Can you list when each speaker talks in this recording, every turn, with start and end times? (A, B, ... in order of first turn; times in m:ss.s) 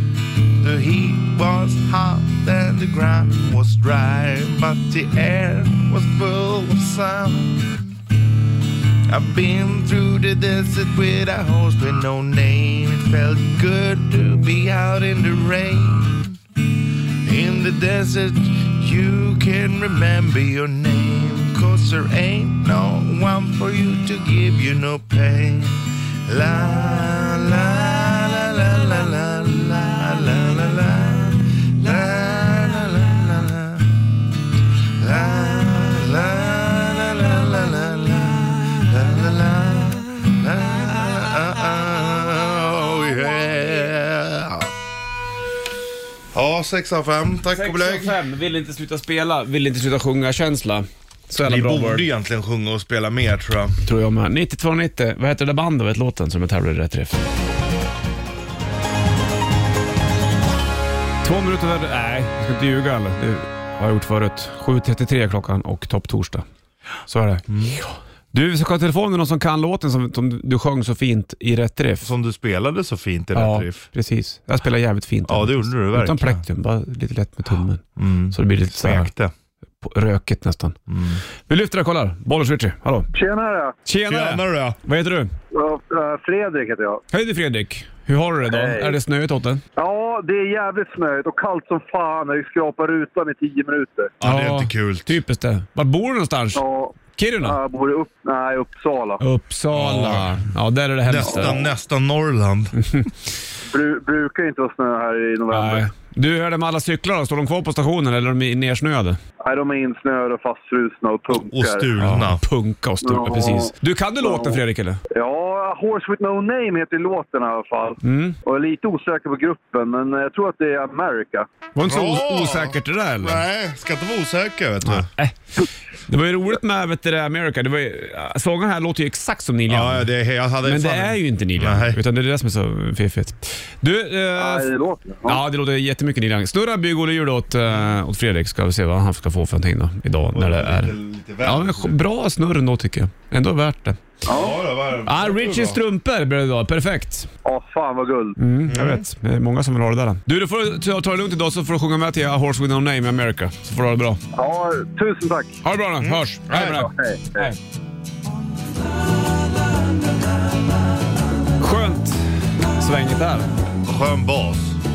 0:00.5-0:07.9 A
0:09.1-0:16.4 A
0:17.2-0:34.0 A
0:34.9-0:44.7 A
0:46.3-0:48.2 A
0:47.5-0:52.1 B
0:51.4-0:53.8 A
0:53.8-0:57.2 B
1:01.2-1:06.4 B
1:07.1-1:12.1 B
1:07.5-1:07.8 A
1:12.0-1:13.9 A
1:13.3-1:19.1 B
1:15.3-1:16.4 A
1:18.0-1:19.3 A
1:19.8-1:20.8 B
1:20.9-1:21.2 A
1:21.4-1:23.1 B
1:23.1-1:23.8 C
1:23.8-1:25.3 B
1:24.1-1:24.8 A
1:25.5-1:27.0 C
1:27.1-1:29.6 B
1:28.4-1:29.0 C
1:29.8-1:34.1 C
1:34.2-1:35.1 A
1:34.2-1:37.6 B
1:36.5-1:39.2 C
1:39.2-1:41.6 B
1:39.7-1:40.4 A
1:41.0-1:43.1 A
1:41.3-1:41.6 C
1:43.7-1:45.8 C
1:45.5-1:49.2 B
1:49.4-1:51.9 C
1:51.3-1:52.4 A
1:52.0-1:55.0 B
1:53.0-1:54.6 C
1:55.1-2:01.5 C
1:58.0-1:58.4 B
2:01.7-2:03.4 B
2:01.8-2:05.1 A
2:04.8-2:10.1 B
2:09.7-2:12.0 A
2:10.6-2:14.7 B
2:14.4-2:15.4 C
2:15.2-2:24.0 B
2:20.3-2:21.9 A
2:24.2-2:24.6 C
2:24.3-2:25.8 A
2:25.0-2:27.3 B
2:27.4-2:28.4 C
2:28.4-2:34.2 B
2:28.7-2:29.0 A
2:34.3-2:35.6 C
2:35.6-2:37.6 B
2:36.0-2:36.8 A
2:36.6-2:37.5 C
2:41.6-2:43.5 B
2:43.8-2:44.8 A